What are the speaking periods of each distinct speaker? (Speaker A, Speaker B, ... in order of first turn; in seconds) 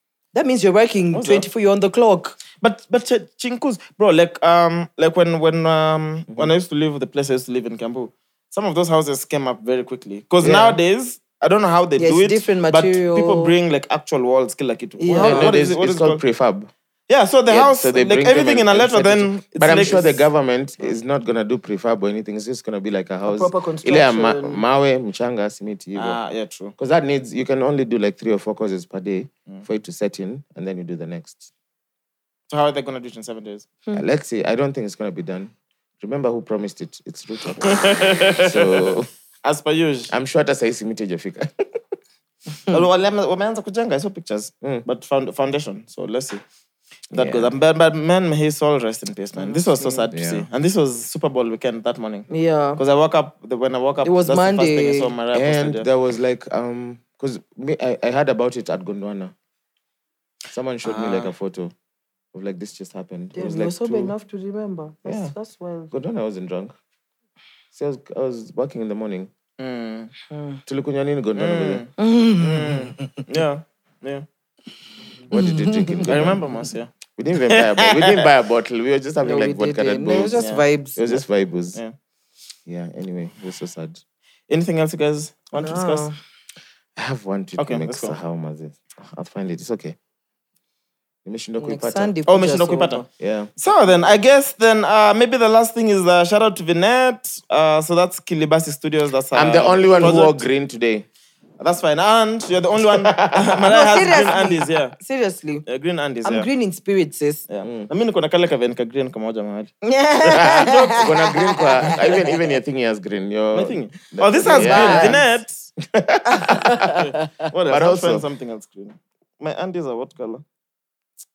Speaker A: 0.3-2.4, 12.0-13.5, 15.0-15.5, 23.3-24.6, 49.4-50.1, 52.3-52.8, 54.0-55.1, 63.4-65.9, 70.3-70.6, 72.0-73.2, 75.3-76.1, 79.2-81.1, 85.5-86.2, 91.6-93.1, 103.7-105.6, 106.2-107.5, 109.8-112.4, 114.4-115.3, 116.2-117.3
Speaker B: 1.1-1.5, 2.6-16.2, 17.1-20.2, 25.9-26.7, 32.5-33.7, 37.7-38.9, 39.4-40.1, 42.7-46.4, 47.1-55.9, 60.8-61.3, 65.1-65.3, 69.6-70.1, 71.4-74.3, 76.1-76.9, 77.5-78.3, 80.4-80.7, 84.5-86.1, 87.6-88.2, 92.3-93.0, 93.6-100.4, 101.6-105.0, 105.7-106.5, 107.5-109.7, 113.5-115.7, 117.5-120.4
Speaker C: 10.4-10.8, 15.2-16.7, 17.5-26.2, 26.8-31.5, 33.9-39.1, 40.1-41.8, 47.1-47.5, 50.1-50.5, 55.3-59.3, 60.5-61.7, 62.3-64.1, 65.9-66.8, 67.7-69.3, 70.7-71.9, 75.3-76.4, 77.1-81.8, 82.7-84.0, 87.0-90.0, 91.2-92.2, 93.2-93.5, 99.3-101.1, 102.8-103.7, 107.6-107.9, 110.2-115.3, 115.9-117.0, 117.7-118.3